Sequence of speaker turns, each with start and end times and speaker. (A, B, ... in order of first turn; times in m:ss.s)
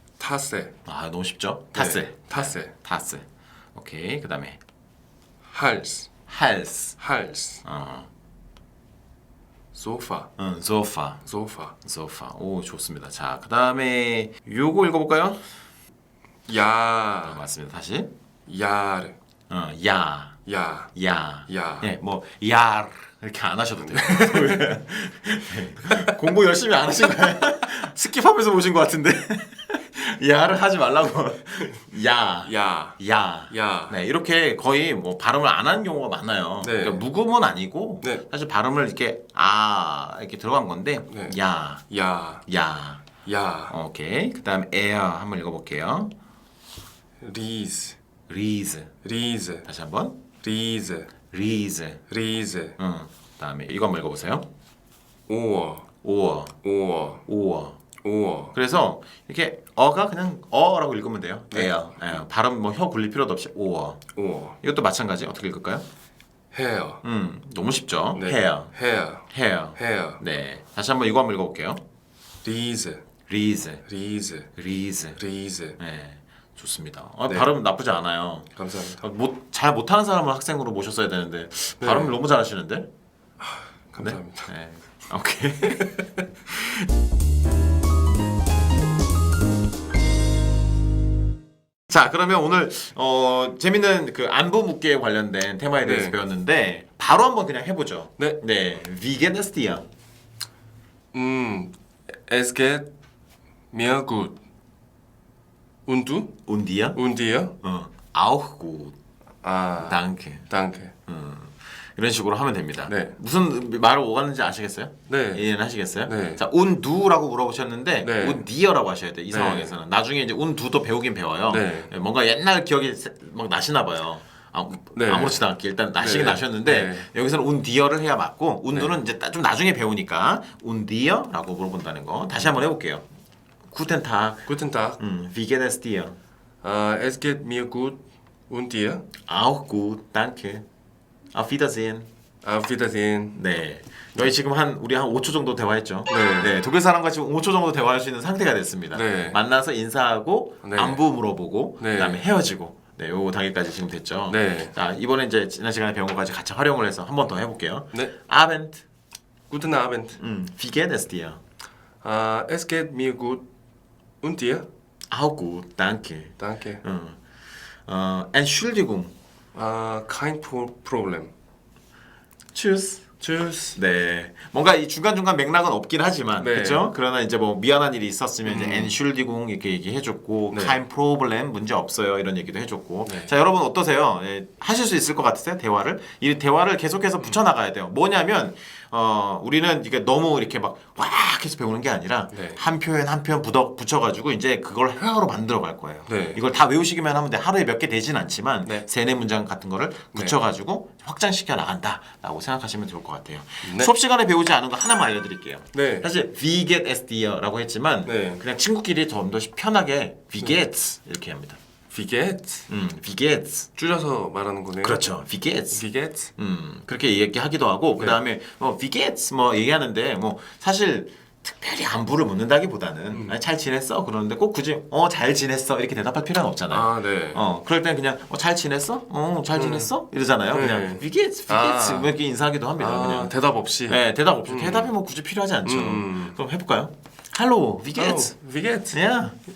0:00.2-0:00.7 A
0:00.9-0:04.6 B
0:01.7-0:02.7 A
0:05.5-0:06.1 A
0:06.3-0:07.0 B
0:07.0-0:07.6 A
0:07.6-0:08.1 B
0:09.7-0:10.3 A
0:10.4-0:11.2 B
0:11.2-0:11.8 A
0:11.8-0:15.4 B
0:16.5-0:17.4 A
0:17.2-0:18.1 B
0:18.5-0:19.2 A
0:19.5-0:20.4 B
0:20.5-0:20.9 A
0:21.0-0:41.9 B
0:21.5-0:21.9 A
0:24.0-0:24.6 A
0:32.4-0:33.0 A
0:33.5-0:34.0 A
0:36.6-0:37.0 A
0:41.1-0:41.4 A
0:41.9-0:42.4 A
0:42.5-0:43.1 B
0:43.2-0:43.7 A
0:43.7-0:46.1 B
0:47.2-0:48.0 A
0:48.3-0:48.9 B
0:49.0-0:49.7 A
0:49.6-0:50.2 B
0:50.4-0:51.1 A
0:51.3-0:52.0 B
0:52.1-0:52.8 A
0:52.8-0:54.5 B
0:55.3-0:55.9 A
0:56.0-0:56.6 B
0:56.6-0:57.2 A
0:57.3-0:57.8 B
0:58.0-0:58.5 A
0:58.5-1:04.0 B
1:01.5-1:02.0 A
1:04.2-1:04.6 A
1:04.6-1:05.8 B
1:06.5-1:07.0 A
1:07.0-1:08.7 B
1:08.2-1:09.2 A
1:09.3-1:11.8 B
1:09.8-1:10.2 A
1:12.4-1:13.0 A
1:13.3-1:13.8 B
1:13.8-1:14.5 A
1:14.6-1:15.2 B
1:15.2-1:15.8 A
1:15.8-1:22.9 B
1:18.6-1:19.0 A
1:21.8-1:22.1 A
1:23.4-1:24.5 A
1:24.0-1:26.9 B
1:31.9-1:39.8 B
1:35.8-1:36.2 A
1:41.1-1:41.8 A
1:42.3-1:42.9 A
1:43.7-1:44.4 A
1:45.9-1:46.4 A
1:46.5-1:47.0 B
1:46.9-1:47.6 A
1:47.6-1:49.0 B
1:49.4-1:50.9 A
1:49.8-1:50.5 B
1:51.1-2:13.0 B
1:52.9-1:53.2 A
1:55.1-1:55.4 A
1:56.1-1:56.4 A
1:58.0-1:58.4 A
1:59.3-1:59.8 A
2:01.5-2:01.9 A
2:05.0-2:05.4 A
2:06.0-2:07.1 A
2:13.7-2:14.4 B
2:14.5-2:15.0 A
2:15.0-2:16.2 B
2:16.6-2:19.1 A
2:19.2-2:20.6 B
2:21.3-2:22.1 B
2:22.4-2:23.4 A
2:23.3-2:38.8 B
2:26.1-2:26.5 A
2:28.9-2:29.4 A
2:30.6-2:31.0 A
2:31.8-2:32.2 A
2:34.3-2:34.7 A
2:39.5-2:40.2 A
2:40.2-2:41.4 B
2:42.0-2:43.5 A
2:44.2-2:44.7 A
2:45.1-2:47.2 B
2:46.4-2:46.8 A
2:47.9-2:49.1 B
2:49.5-2:51.3 A
2:52.5-2:53.2 B
2:53.2-2:53.8 A
2:53.8-3:31.6 B
2:56.4-2:56.9 A
2:58.5-2:58.9 A
3:00.5-3:00.8 A
3:12.3-3:12.6 A
3:16.1-3:16.4 A
3:23.6-3:23.9 A
3:25.7-3:26.1 A
3:28.1-3:28.4 A
3:31.9-3:32.7 A
3:32.7-3:33.7 B
3:33.8-3:35.0 A
3:34.8-3:35.8 B
3:35.7-3:36.3 A
3:36.4-3:53.3 B
3:46.7-3:47.4 A
3:49.6-3:49.9 A
3:50.5-3:52.1 A
3:52.8-3:54.9 A
3:53.9-3:58.3 B
3:55.6-3:56.4 A
3:58.0-3:59.1 A
3:58.9-3:59.4 B